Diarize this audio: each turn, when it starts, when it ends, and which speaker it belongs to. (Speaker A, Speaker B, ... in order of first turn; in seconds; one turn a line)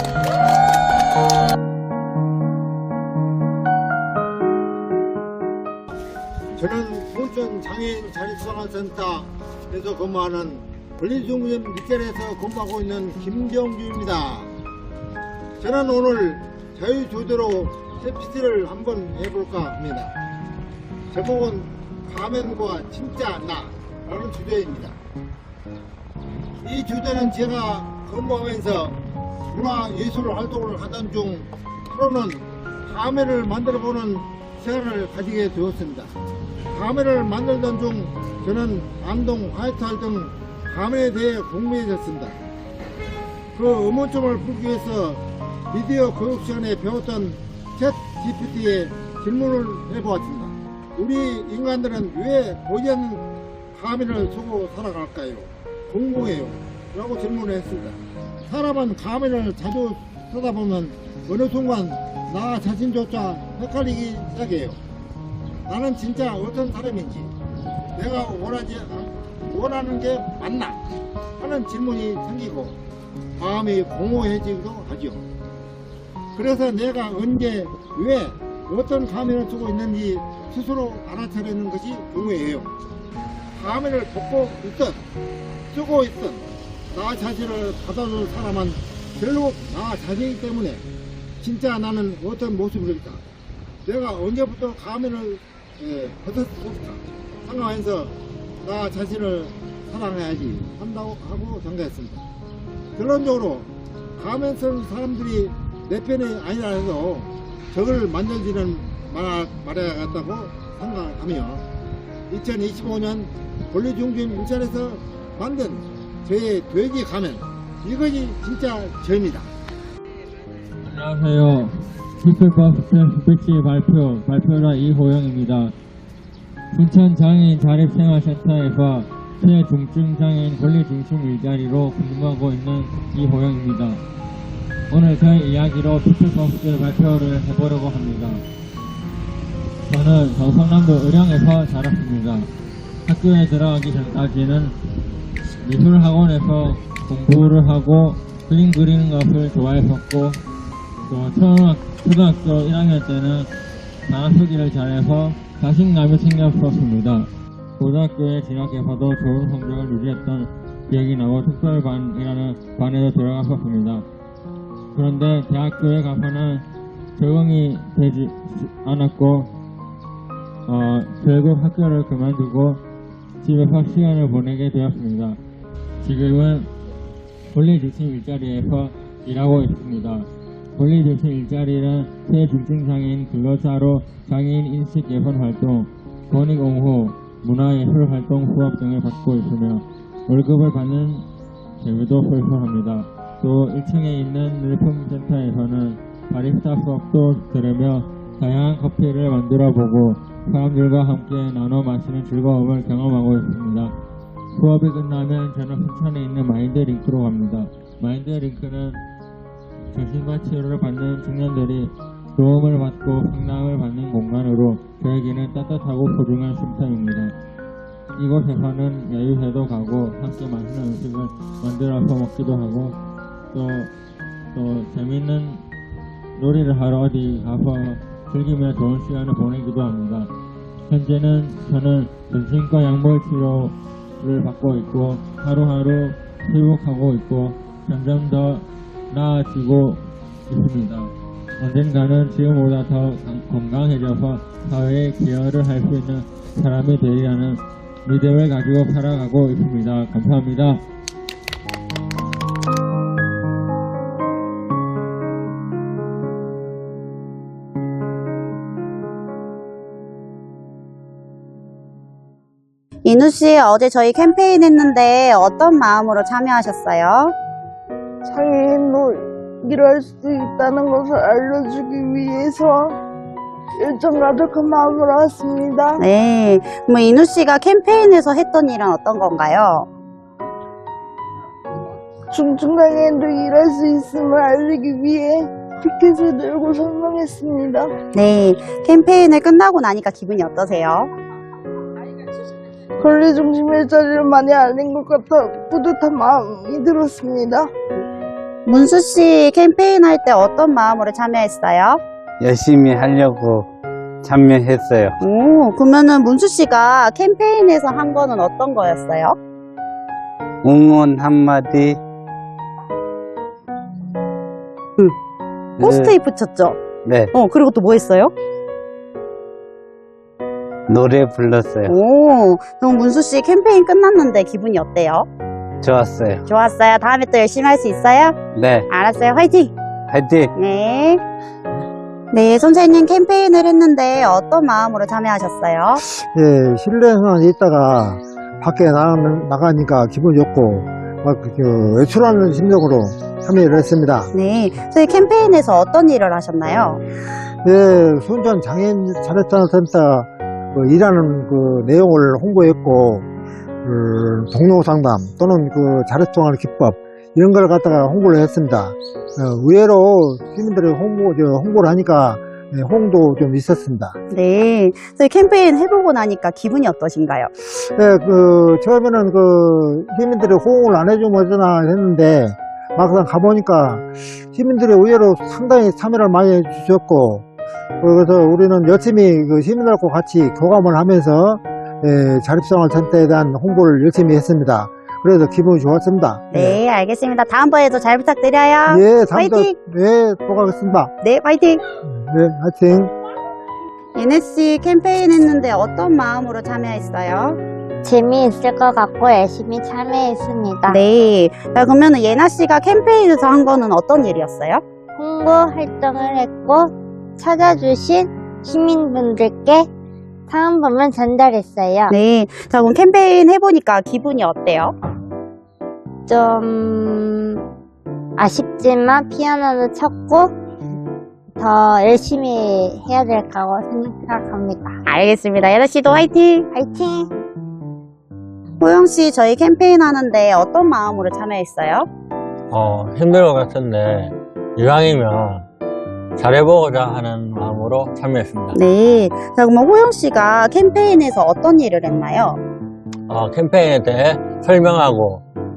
Speaker A: 6.6-14.5
Speaker A: 15.6-20.1
Speaker A: 21.1-25.0
Speaker A: 26.6-29.0
Speaker A: 29.5-36.1
Speaker A: 36.7-42.4
Speaker A: 43.5-64.8
Speaker A: 65.7-67.3
Speaker A: 68.0-70.8
Speaker A: 71.4-72.8
Speaker A: 73.4-75.2
Speaker A: 76.3-82.8
Speaker A: 83.5-85.0
Speaker A: 85.7-90.8
Speaker A: 91.4-93.2
Speaker A: 93.8-102.2
Speaker A: 103.0-111.6
Speaker A: 112.3-119.5
Speaker B: 120.8-125.8
Speaker B: 126.7-134.0
Speaker B: 134.9-138.4
Speaker B: 139.9-142.5
Speaker B: 143.1-144.7
Speaker B: 145.6-150.4
Speaker B: 151.1-153.5
Speaker B: 154.1-164.1
Speaker B: 164.9-166.7
Speaker B: 167.2-169.5
Speaker B: 170.7-172.8
Speaker B: 173.4-175.4
Speaker B: 176.0-176.7
Speaker B: 177.5-191.3
Speaker B: 191.8-203.9
Speaker B: 204.5-209.0
Speaker B: 209.9-217.3
Speaker B: 218.2-223.0
Speaker B: 223.5-223.9
Speaker B: 224.5-225.6
Speaker B: 226.4-230.3
Speaker B: 230.9-250.8
Speaker C: 263.1-267.3
Speaker D: 268.2-273.0
Speaker D: 273.8-276.0
Speaker C: 276.0-279.9
Speaker D: 282.3-287.9
Speaker C: 288.1-291.1
Speaker D: 293.0-297.7
Speaker C: 298.7-302.0
Speaker E: 302.4-303.7
Speaker E: 304.2-305.2
Speaker C: 305.2-309.4
Speaker E: 310.6-312.0
Speaker E: 315.8-316.2
Speaker C: 315.8-316.8
Speaker E: 317.1-317.3
Speaker C: 317.3-318.3
Speaker E: 320.9-321.9
Speaker C: 321.9-325.3
Speaker E: 325.8-326.4
Speaker C: 326.5-328.4
Speaker E: 328.6-328.9
Speaker C: 328.9-329.7
Speaker E: 330.1-330.5
Speaker C: 330.6-331.2
Speaker C: 332.3-336.0
Speaker F: 336.1-344.3
Speaker C: 344.3-347.0
Speaker F: 347.6-353.3
Speaker F: 353.8-364.2
Speaker C: 364.3-367.5
Speaker F: 367.8-377.4
Speaker F: 378.0-386.8
Speaker C: 386.5-389.7
Speaker F: 388.9-391.1
Speaker C: 391.2-391.8
Speaker F: 392.0-393.1
Speaker C: 394.1-397.6
Speaker G: 398.0-401.0
Speaker C: 400.9-404.8
Speaker G: 405.2-409.9
Speaker G: 410.5-412.1
Speaker C: 412.1-414.9
Speaker G: 416.3-417.6
Speaker G: 418.4-420.6
Speaker G: 421.6-425.0
Speaker C: 425.1-426.7
Speaker G: 426.7-427.3
Speaker C: 428.8-432.1
Speaker H: 432.7-435.6
Speaker H: 436.4-438.8
Speaker C: 438.7-442.6
Speaker H: 443.3-445.4